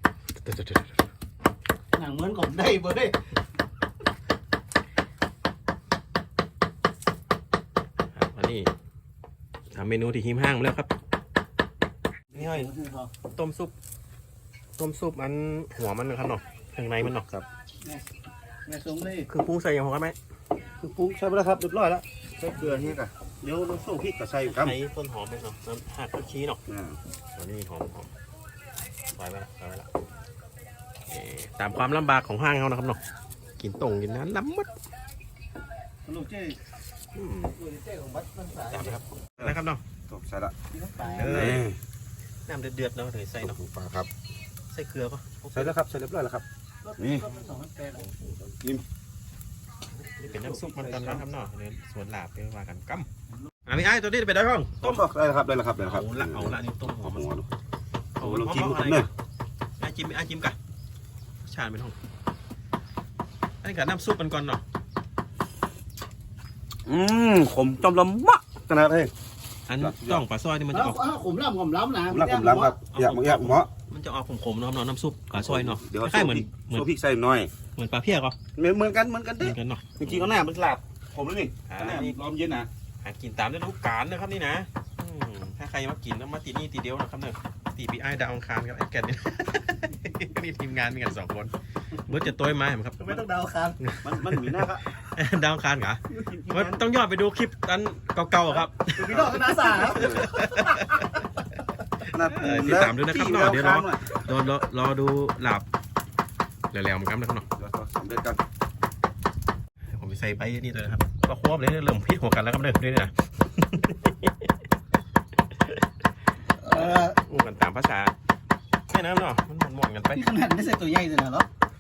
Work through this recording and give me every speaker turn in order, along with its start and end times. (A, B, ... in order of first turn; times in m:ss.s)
0:00.4-0:01.1 A
0:01.9-0:03.2 B
0:08.1-0:08.7 A
0:09.7-0:10.9 A
0:12.3-0:12.7 A
0:12.3-0:13.1 B
0:13.3-0:13.8 A
0:14.8-0:17.3 A
0:17.0-0:17.5 C
0:18.6-0:19.3 B
0:19.3-0:20.2 A
0:20.8-0:24.8 C
0:24.4-0:26.6 A
0:26.7-0:27.0 C
0:27.3-0:28.1 A
0:29.1-0:29.9 A
0:31.1-0:33.0 A
0:33.6-0:34.7 A
0:36.0-0:36.6 B
0:37.1-0:37.6 A
0:37.6-0:39.0 B
0:38.7-0:39.8 A
0:40.1-0:40.6 C
0:40.7-0:41.6 B
0:41.0-0:41.7 A
0:41.1-0:41.8 C
0:42.5-0:43.6 A
0:43.4-0:44.1 C
0:44.7-0:45.7 A
0:45.5-0:46.4 C
0:46.8-0:48.1 B
0:47.0-0:47.3 C
0:48.2-0:48.8 C
0:50.0-0:53.1 A
0:50.6-0:51.0 B
0:53.7-0:55.0 A
0:54.8-0:57.5 C
0:55.8-0:57.3 A
0:58.2-0:59.1 A
0:58.2-0:59.1 C
0:59.8-1:00.6 A
1:01.4-1:02.0 A
1:03.6-1:04.6 A
1:06.9-1:09.1 C
1:09.7-1:11.0 A
1:09.8-1:10.2 C
1:10.7-1:12.8 B
1:12.1-1:13.7 C
1:12.9-1:16.9 A
1:15.3-1:17.5 C
1:17.7-1:18.4 A
1:18.6-1:22.7 C
1:19.4-1:20.3 A
1:21.7-1:22.3 A
1:23.0-1:33.2 A
1:33.0-1:33.8 B
1:33.8-1:41.3 A
1:34.0-1:34.8 C
1:36.1-1:36.9 C
1:38.9-1:41.1 B
1:39.0-1:40.4 C
1:42.0-1:44.2 C
1:42.3-1:45.7 A
1:46.7-1:47.5 A
1:47.6-1:48.4 C
1:49.9-1:54.5 A
1:56.6-1:57.2 B
1:56.7-1:58.1 A
1:58.9-2:00.3 A
2:00.1-2:01.5 B